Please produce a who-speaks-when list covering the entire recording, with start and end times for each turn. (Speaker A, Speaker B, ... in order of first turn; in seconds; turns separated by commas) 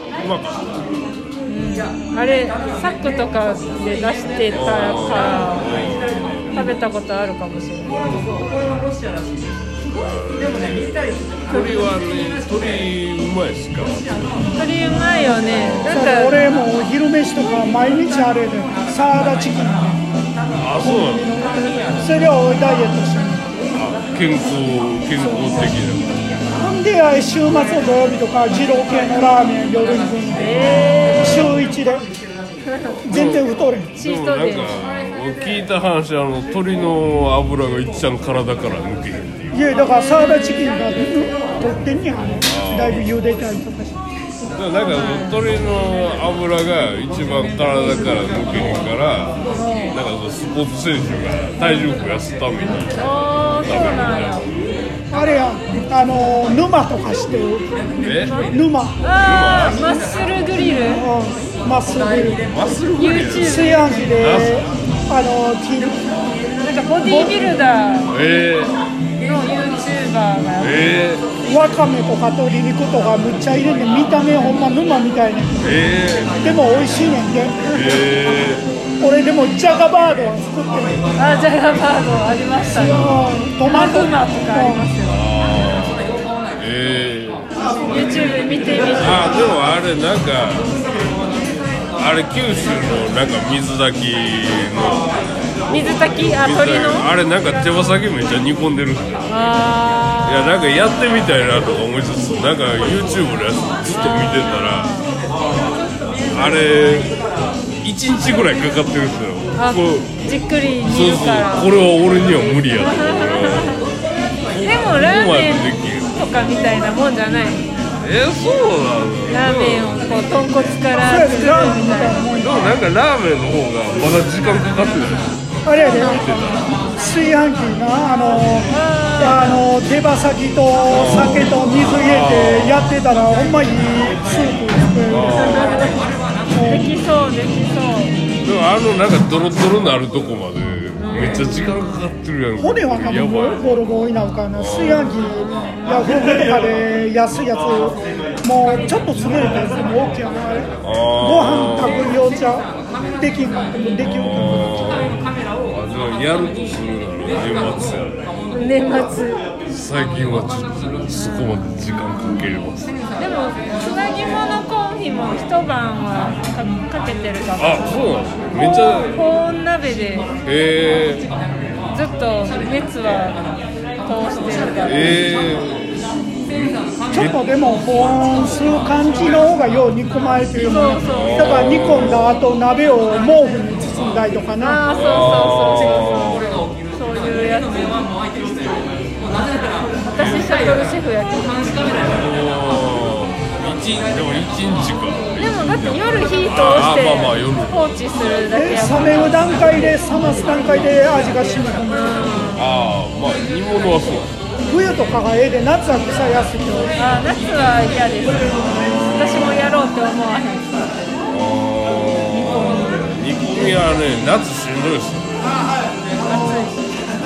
Speaker A: 0.2-0.7, Speaker B: 1.5-5.7, Speaker A: 4.5-6.7, Speaker B: 6.5-8.1, Speaker A: 10.0-14.4, Speaker B: 14.6-16.6, Speaker A: 15.6-16.0, Speaker C: 15.8-20.0, Speaker A: 20.5-21.4, Speaker C: 20.8-23.7, Speaker A: 23.7-26.1, Speaker C: 25.2-25.7, Speaker C: 26.6-32.1, Speaker B: 30.3-31.5, Speaker B: 32.6-33.0, Speaker C: 33.0-33.9, Speaker A: 33.1-39.6, Speaker B: 34.0-34.8, Speaker C: 39.5-44.0, Speaker B: 40.0-40.5, Speaker A: 42.5-43.0, Speaker A: 44.5-54.6, Speaker B: 44.8-45.4, Speaker C: 49.5-50.0, Speaker B: 53.0-54.5, Speaker C: 55.1-57.7, Speaker A: 58.0-58.4, Speaker B: 58.3-61.0, Speaker C: 58.4-59.0, Speaker A: 59.2-60.0, Speaker C: 60.7-62.4, Speaker A: 62.5-64.6, Speaker B: 63.0-64.2, Speaker C: 63.4-66.0, Speaker B: 66.6-68.1, Speaker C: 67.0-67.4, Speaker A: 68.1-68.8, Speaker B: 69.2-70.9, Speaker A: 70.6-71.3, Speaker C: 71.4-77.8, Speaker A: 75.6-76.4, Speaker A: 77.7-78.7, Speaker C: 79.0-81.0, Speaker B: 81.2-83.1, Speaker C: 82.7-84.9, Speaker B: 83.6-85.2, Speaker A: 85.0-87.5, Speaker B: 87.7-89.3, Speaker A: 89.0-90.7, Speaker A: 92.0-95.1, Speaker B: 95.7-97.1, Speaker A: 96.4-99.3, Speaker B: 99.3-100.6, Speaker A: 100.2-104.9, Speaker B: 103.9-105.1, Speaker A: 106.3-107.2, Speaker A: 107.8-110.1, Speaker B: 109.5-111.7, Speaker A: 110.8-113.8, Speaker B: 112.8-113.8, Speaker A: 114.5-116.1, Speaker B: 114.6-117.7, Speaker A: 118.0-120.1, Speaker B: 119.3-122.3, Speaker C: 121.0-122.8, Speaker A: 122.4-125.3, Speaker C: 125.7-126.4, Speaker B: 125.8-126.3, Speaker A: 126.0-126.8, Speaker C: 127.0-135.9, Speaker B: 128.7-129.6, Speaker A: 130.9-132.9, Speaker A: 135.1-136.0, Speaker B: 135.5-135.9, Speaker C: 136.5-137.0, Speaker B: 136.7-138.1, Speaker A: 138.4-143.7, Speaker B: 141.0-141.7, Speaker C: 142.6-152.7, Speaker A: 144.5-145.2, Speaker A: 150.8-152.2, Speaker C: 153.2-155.2, Speaker A: 154.1-158.2, Speaker B: 158.5-159.5, Speaker A: 159.7-162.9, Speaker B: 163.2-170.3, Speaker A: 167.6-169.2, Speaker A: 170.4-171.3, Speaker B: 171.9-173.5, Speaker B: 174.0-175.2, Speaker A: 174.9-177.4, Speaker C: 177.1-184.9, Speaker B: 180.6-181.6, Speaker A: 181.1-182.3, Speaker B: 184.6-186.4, Speaker A: 184.9-186.5, Speaker B: 186.9-188.1, Speaker B: 190.0-191.8, Speaker A: 190.1-190.5, Speaker A: 192.0-197.9, Speaker B: 195.4-199.9, Speaker C: 198.5-202.5, Speaker B: 201.9-202.6, Speaker A: 202.6-204.3, Speaker C: 204.7-206.9, Speaker B: 207.0-210.7, Speaker A: 208.6-209.7, Speaker A: 211.3-215.6, Speaker B: 212.4-212.9, Speaker B: 216.2-216.8, Speaker C: 216.3-216.7